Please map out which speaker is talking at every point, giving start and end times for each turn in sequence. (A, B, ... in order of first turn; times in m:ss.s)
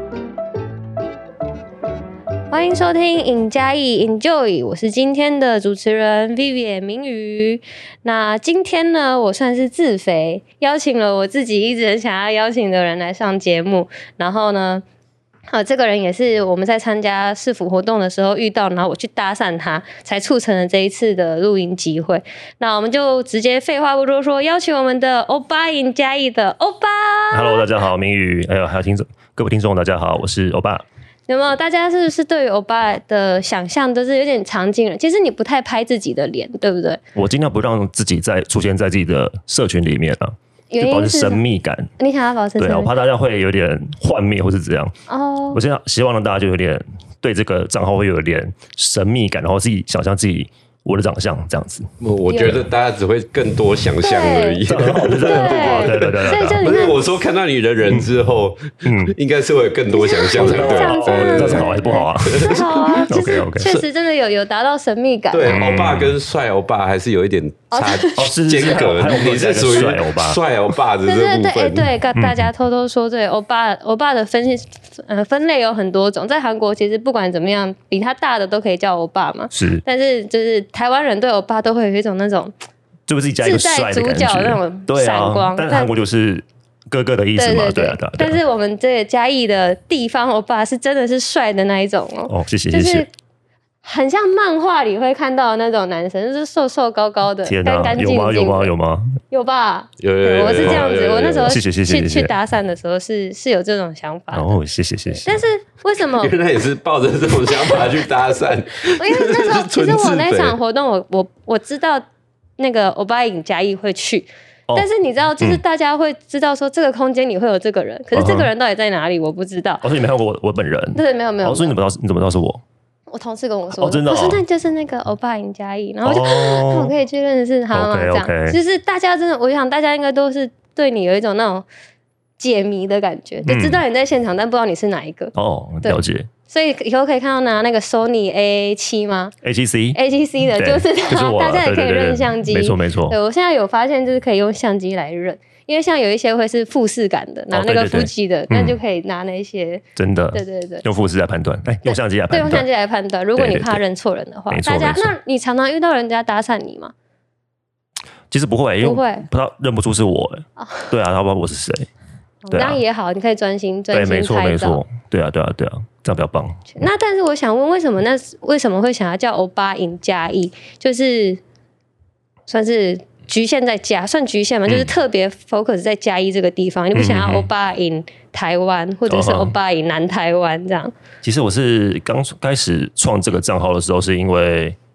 0:02.5-0:14.8 A
0:15.5-0:27.6 A
0:27.3-0:30.8 B
0:31.3-0:37.0 A
0:37.1-0:41.9 B
0:40.7-0:41.4 A
0:42.0-0:42.9 A
0:42.6-0:44.9 B
0:45.1-0:45.6 A
0:45.5-0:52.6 B
0:52.0-1:03.8 C
0:52.3-0:52.6 A
0:54.0-0:54.6 A
0:54.7-0:57.0 B
0:55.2-0:57.1 A
0:57.9-0:58.2 B
0:58.8-0:59.1 B
0:59.9-1:05.6 A
1:00.3-1:03.7 B
1:05.3-1:11.9 C
1:05.5-1:06.2 B
1:07.7-1:08.2 A
1:08.2-1:10.4 B
1:11.0-1:22.5 A
1:12.2-1:12.5 B
1:19.5-1:19.8 B
1:23.1-1:28.4 B
1:23.4-1:25.9 A
1:27.4-1:33.1 A
1:32.3-1:33.0 B
1:33.8-1:38.7 A
1:37.4-1:39.2 B
1:39.3-1:44.6 A
1:40.0-1:41.6 C
1:40.4-1:42.3 B
1:44.3-1:45.4 B
1:45.1-1:46.3 A
1:46.1-1:50.6 C
1:48.9-1:52.0 A
1:52.6-1:59.8 A
1:58.1-1:58.5 B
1:59.8-2:02.6 B
2:00.9-2:01.7 A
2:03.1-2:11.7 A
2:03.8-2:04.4 B
2:06.0-2:06.9 B
2:07.7-2:08.6 B
2:12.4-2:19.3 A
2:13.4-2:13.8 B
2:15.4-2:16.3 B
2:19.4-2:23.2 B
2:19.9-2:30.8 A
2:27.5-2:28.8 B
2:30.0-2:32.6 B
2:31.8-2:36.9 A
2:33.4-2:33.8 B
2:34.5-2:35.1 B
2:38.3-2:41.9 B
2:38.8-2:39.2 A
2:40.6-2:40.9 A
2:42.5-2:44.8 A
2:42.5-2:42.8 B
2:43.9-2:46.8 B
2:46.7-2:51.4 A
2:52.5-3:00.9 A
2:54.7-2:54.9 B
2:56.9-2:57.5 B
2:59.1-2:59.5 B
3:01.2-3:04.8 B